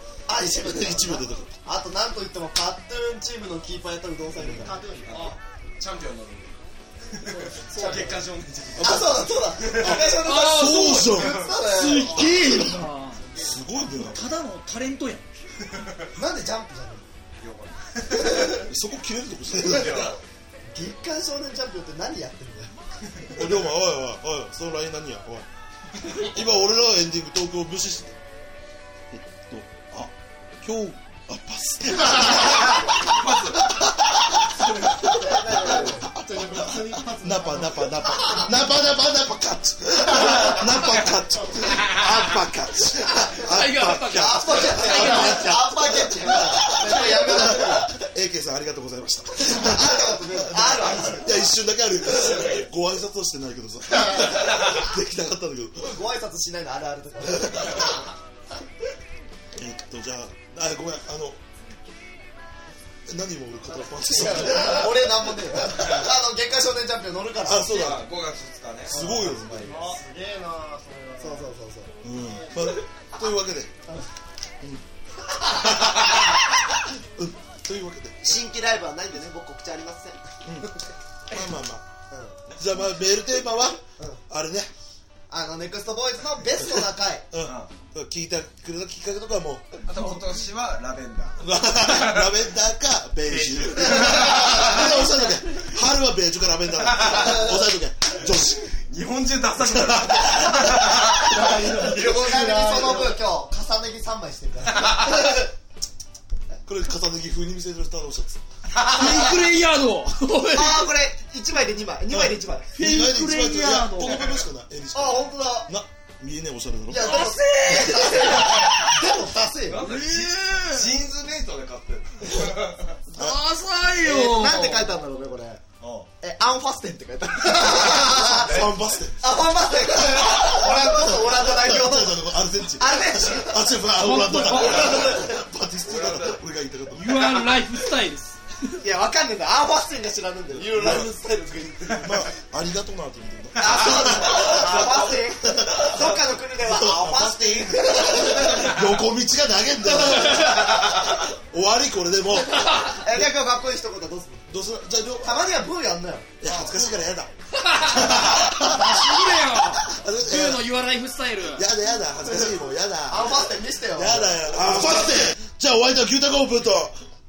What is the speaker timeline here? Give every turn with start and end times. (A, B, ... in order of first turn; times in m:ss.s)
0:00.3-0:04.8 A
0:00.5-0:01.6 B
0:04.4-0:04.7 B
0:04.5-0:05.2 C
0:05.1-0:06.6 D
0:07.1-0:10.2 D
0:07.7-0:08.2 A
0:08.8-0:12.2 A
0:08.8-0:09.1 B
0:09.6-0:14.3 B
0:10.2-0:13.3 E
0:11.1-0:11.6 D
0:13.9-0:15.3 E
0:15.7-0:16.1 D
0:16.2-0:17.1 A
0:17.4-0:18.6 D
0:18.2-0:18.7 A
0:18.6-0:20.1 B
0:19.6-0:20.2 D
0:20.7-0:22.7 A
0:23.4-0:25.5 B
0:26.0-0:28.1 B
0:29.1-0:56.0 B
0:32.3-0:33.7 D
0:35.1-0:36.1 A
0:35.9-0:38.0 C
0:38.2-0:38.4 E
0:40.2-0:40.8 C
0:40.6-0:41.1 E
0:41.8-0:42.3 E
0:43.4-0:45.6 E
0:44.1-0:47.9 A
0:49.4-0:51.6 A
0:52.2-0:52.7 D
0:55.8-0:58.0 A
0:57.4-0:57.9 B
0:59.6-1:01.4 B
1:03.1-1:05.4 B
1:03.8-1:07.9 A
1:07.4-1:08.1 B
1:07.7-1:09.6 D
1:08.9-1:09.8 B
1:08.9-1:09.9 A
1:09.7-1:11.5 C
1:11.2-1:11.9 A
1:12.0-1:13.8 B
1:12.1-1:12.7 C
1:15.6-1:16.4 B
1:17.2-1:18.4 B
1:18.2-1:20.2 A
1:20.4-1:20.7 B
1:21.3-1:21.8 B
1:22.1-1:22.4 A
1:22.5-1:24.7 B
1:25.3-1:27.3 A
1:27.3-1:30.2 B
1:27.4-1:27.7 D
1:29.8-1:32.2 D
1:31.4-1:38.7 B
1:33.2-1:35.0 D
1:36.8-1:37.4 D
1:38.8-1:42.4 D
1:39.6-1:40.7 B
1:41.2-1:43.2 C
1:41.9-1:45.5 A
1:46.7-1:48.4 B
1:48.8-1:49.2 D
1:48.9-1:50.9 E
1:50.5-1:52.8 A
1:52.1-1:58.0 B
1:52.7-1:54.2 E
1:54.0-1:54.4 D
1:54.9-1:55.7 A
1:56.9-1:59.9 A
1:58.3-1:58.8 D
1:59.6-2:03.0 D
1:59.8-2:01.0 E
2:03.1-2:05.0 E
2:04.0-2:05.6 A
2:05.8-2:06.1 D
2:06.2-2:08.6 A
2:08.3-2:09.3 B
2:08.3-2:08.7 D
2:09.2-2:12.3 A
2:09.9-2:17.4 B
2:12.8-2:13.6 A
2:14.0-2:15.0 E
2:14.6-2:15.0 D
2:14.6-2:15.3 A
2:15.8-2:16.4 D
2:16.9-2:18.7 E
2:18.8-2:22.2 A
2:20.5-2:21.1 B
2:22.0-2:32.8 B
2:23.6-2:28.8 A
2:24.4-2:25.0 D
2:32.5-2:32.9 E
2:32.8-2:34.4 A
2:34.5-2:35.4 B
2:35.2-2:36.9 A
2:36.4-2:39.3 B
2:37.5-2:41.7 E
2:39.9-2:40.6 B
2:41.5-2:47.0 B
2:43.1-2:45.1 A